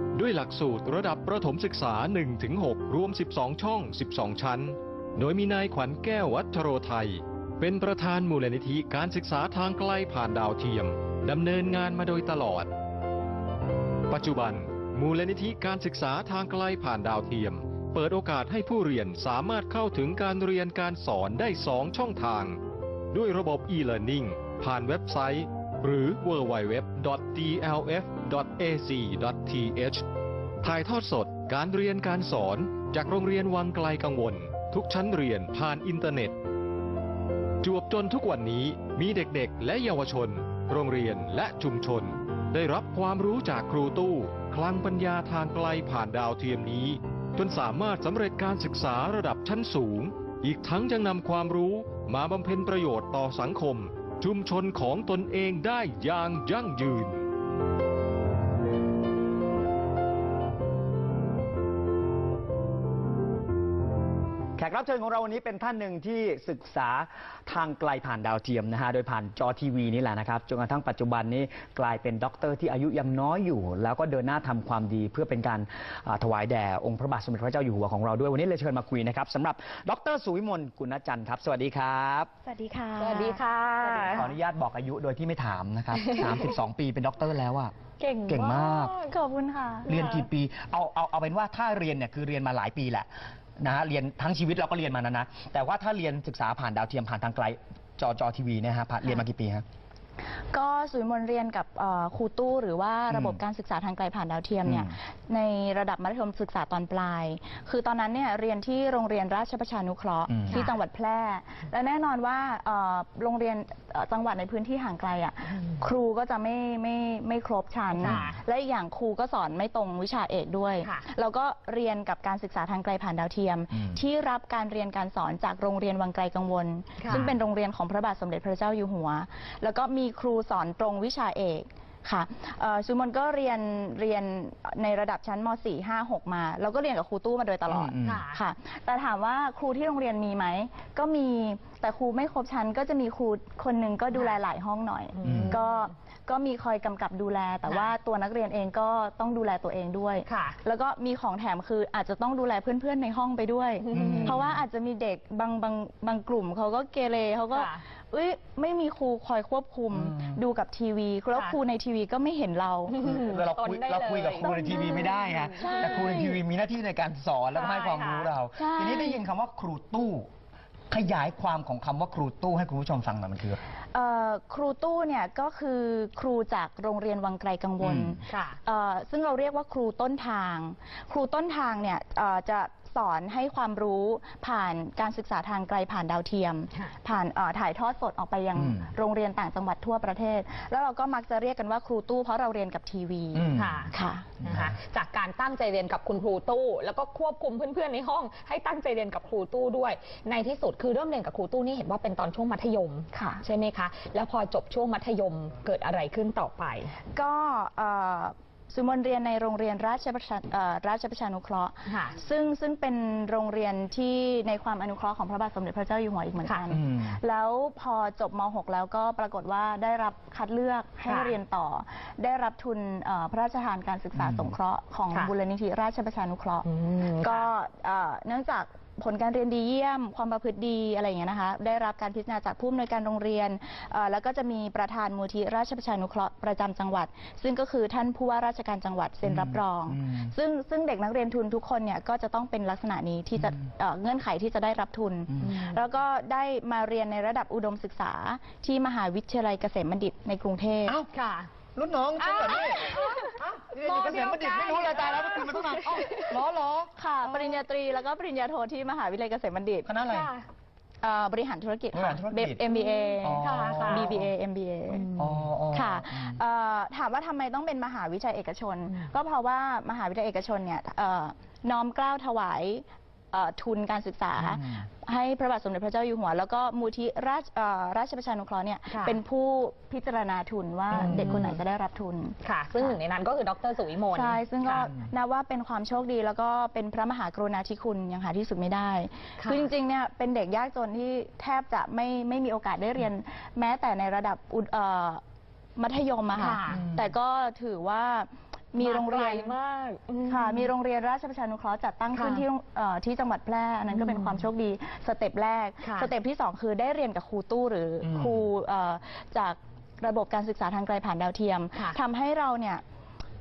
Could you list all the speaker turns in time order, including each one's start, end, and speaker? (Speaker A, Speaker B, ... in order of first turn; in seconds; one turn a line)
Speaker A: 0.1-12.7
Speaker A: 14.1-22.6
Speaker A: 23.1-30.0
Speaker A: 30.6-36.3
Speaker A: 37.6-57.2
Speaker B: 64.6-82.3
Speaker C: 82.4-84.3
Speaker D: 83.0-84.3
Speaker B: 84.1-87.8
Speaker D: 86.0-86.5
Speaker D: 88.0-89.1
Speaker B: 88.3-88.9
Speaker C: 89.0-90.0
Speaker B: 89.8-93.1
Speaker D: 89.9-90.1
Speaker B: 93.6-99.6
Speaker C: 100.5-163.0
Speaker B: 103.1-103.4
Speaker B: 104.7-104.9
Speaker B: 110.3-110.6
Speaker D: 110.5-110.8
Speaker D: 117.9-118.4
Speaker B: 118.0-118.2
Speaker D: 127.0-127.3
Speaker B: 127.1-127.3
Speaker B: 137.7-138.2
Speaker D: 138.0-138.4
Speaker D: 145.2-145.9
Speaker B: 145.2-145.6
Speaker D: 147.7-147.9
Speaker D: 150.2-150.6
Speaker D: 153.9-154.4
Speaker B: 153.9-154.5
Speaker D: 157.5-157.8
Speaker B: 159.9-160.4
Speaker D: 162.9-166.3
Speaker B: 162.9-170.3
Speaker C: 164.4-166.3
Speaker D: 167.5-168.3
Speaker C: 168.6-169.2
Speaker B: 170.9-173.6
Speaker C: 173.9-194.3
Speaker B: 177.8-178.1
Speaker D: 178.2-178.6
Speaker B: 188.6-188.9
Speaker B: 193.3-193.9
Speaker D: 193.5-206.9
Speaker B: 194.4-194.7
Speaker C: 203.1-203.4
Speaker C: 207.1-251.0
Speaker D: 211.8-212.2
Speaker B: 216.7-217.2
Speaker D: 221.1-221.3
Speaker B: 224.2-224.5
Speaker D: 226.6-227.5
Speaker B: 239.2-240.3
Speaker B: 250.8-251.1
Speaker D: 251.1-251.5
Speaker B: 251.7-256.9
Speaker D: 252.2-256.4
Speaker C: 256.9-259.9
Speaker B: 259.8-260.3
Speaker D: 260.0-260.5
Speaker C: 261.0-265.1
Speaker B: 261.9-262.6
Speaker D: 262.9-264.1
Speaker B: 263.2-264.3
Speaker D: 264.9-265.4
Speaker B: 265.2-266.4
Speaker C: 265.7-282.9
Speaker B: 274.4-274.9
Speaker D: 278.9-279.2
Speaker B: 280.9-281.4
Speaker D: 280.9-281.6
Speaker D: 282.4-284.9
Speaker C: 284.1-295.2
Speaker D: 289.4-289.7
Speaker C: 295.8-299.5
Speaker D: 296.3-296.8
Speaker B: 296.7-297.1
Speaker D: 298.8-300.7
Speaker C: 300.3-312.8
Speaker D: 302.1-302.4
Speaker D: 303.9-304.5
Speaker D: 305.8-306.1
Speaker B: 308.0-308.5